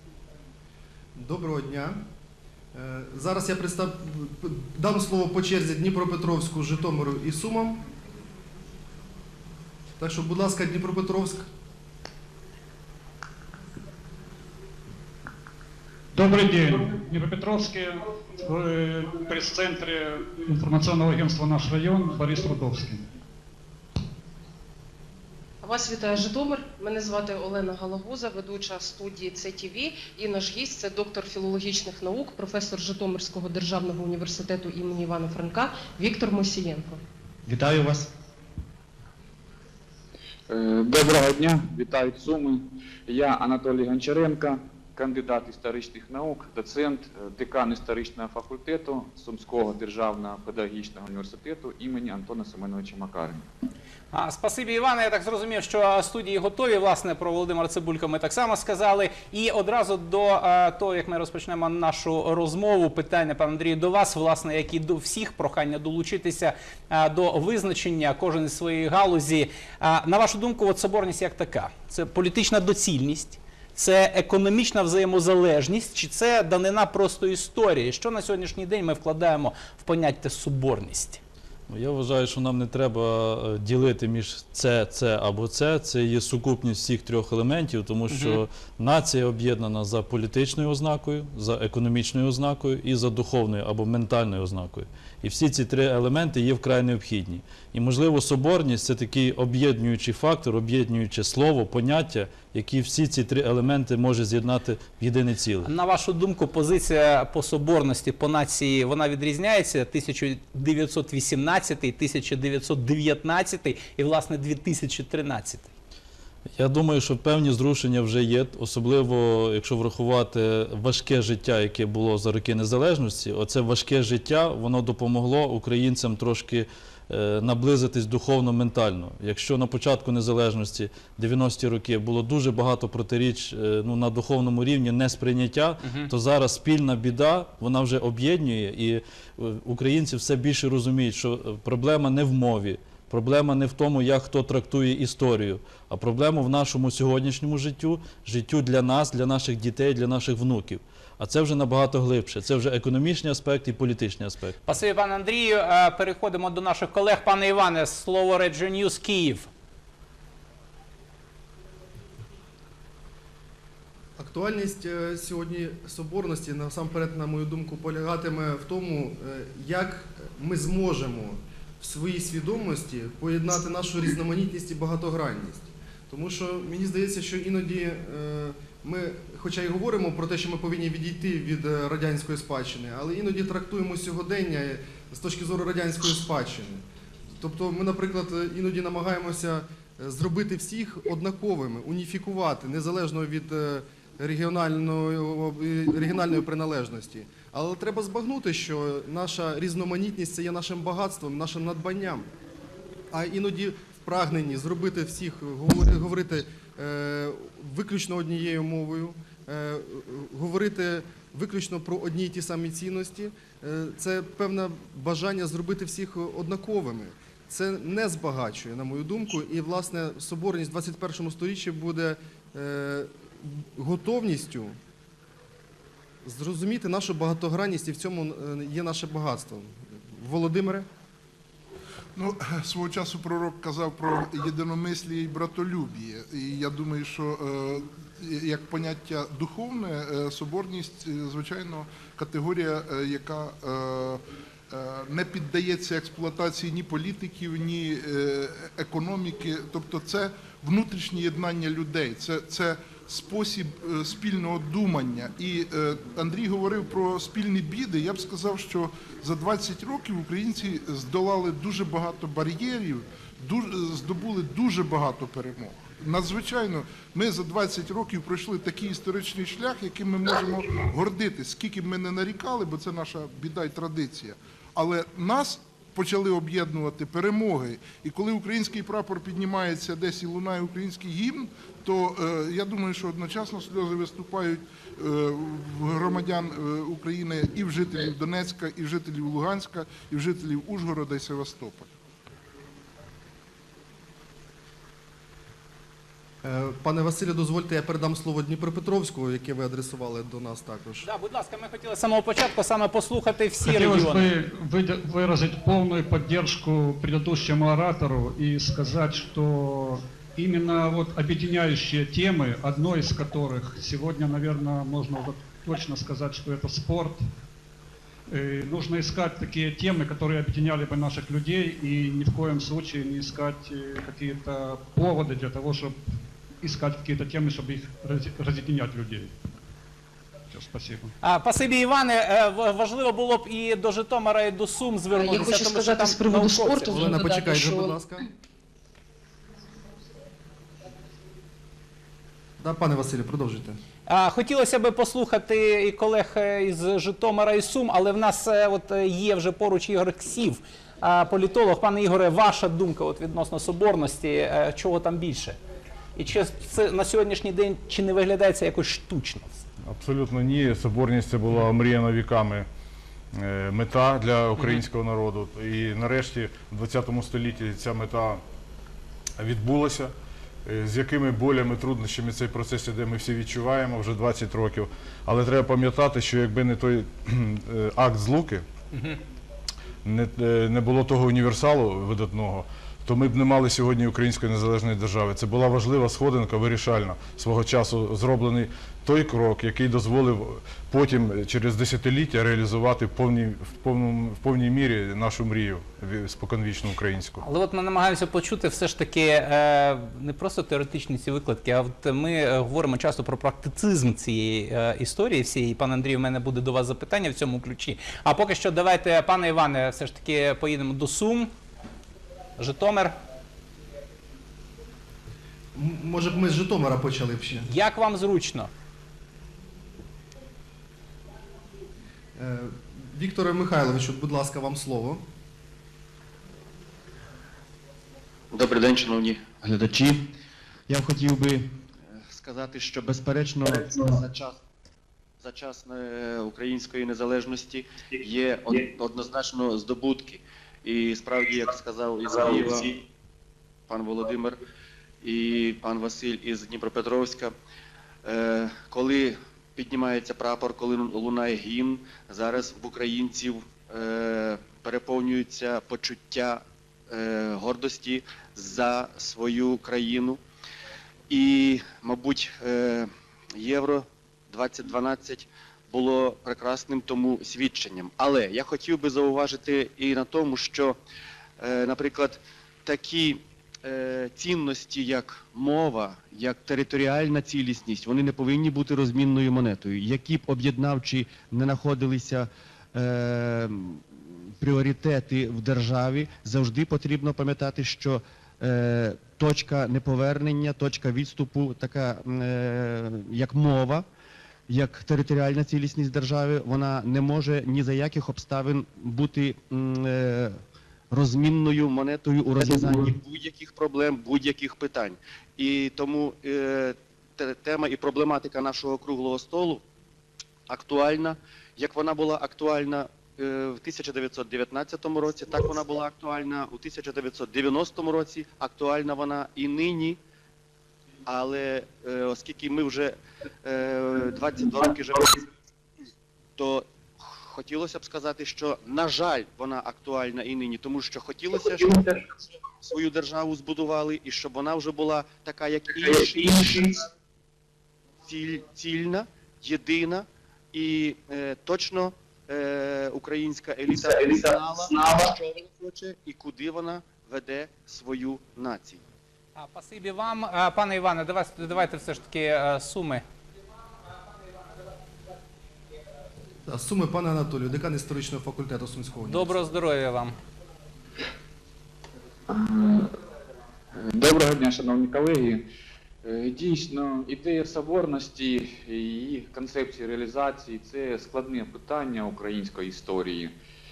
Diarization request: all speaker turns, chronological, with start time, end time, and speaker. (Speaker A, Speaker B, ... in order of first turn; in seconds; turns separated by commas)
Speaker A: 1.2-2.0, Speaker A: 2.7-7.8, Speaker A: 10.0-11.5, Speaker B: 16.1-23.1, Speaker C: 25.6-37.0, Speaker D: 37.5-38.1, Speaker E: 40.5-53.5, Speaker F: 54.1-81.2, Speaker G: 81.7-105.7, Speaker F: 88.1-88.4, Speaker F: 105.6-115.7, Speaker G: 116.6-154.6, Speaker F: 135.8-136.1, Speaker F: 154.7-159.5, Speaker A: 164.2-186.8, Speaker A: 187.4-202.3, Speaker A: 203.1-224.8, Speaker A: 226.2-230.9, Speaker H: 232.2-291.9, Speaker A: 296.4-301.1, Speaker F: 301.0-304.3, Speaker B: 303.6-317.2, Speaker B: 318.3-326.0, Speaker B: 326.6-329.4, Speaker B: 330.5-331.1, Speaker F: 331.2-337.1, Speaker C: 335.1-338.0, Speaker A: 336.9-338.2, Speaker A: 342.6-343.8, Speaker F: 344.1-355.6, Speaker F: 356.2-359.6, Speaker I: 359.8-362.7, Speaker I: 363.3-368.4, Speaker I: 369.4-370.1, Speaker I: 370.6-378.6, Speaker F: 378.9-379.2, Speaker I: 380.0-397.4, Speaker F: 397.4-411.5, Speaker F: 412.6-413.1, Speaker A: 415.8-417.7, Speaker F: 417.7-418.7, Speaker A: 422.4-425.2, Speaker D: 428.5-430.3, Speaker D: 430.9-434.6, Speaker D: 435.4-443.0, Speaker D: 443.9-444.6, Speaker D: 445.2-447.5, Speaker D: 448.2-460.4, Speaker D: 461.3-471.0, Speaker D: 471.6-484.1, Speaker D: 484.6-494.1, Speaker D: 494.7-500.6, Speaker D: 501.1-509.8, Speaker D: 510.7-520.2, Speaker D: 521.3-525.5, Speaker D: 526.6-532.3, Speaker D: 532.8-537.0, Speaker D: 538.3-549.0, Speaker F: 549.6-553.2, Speaker A: 556.6-559.6, Speaker F: 559.3-560.4, Speaker E: 562.5-563.1, Speaker E: 564.0-565.6, Speaker E: 566.2-573.5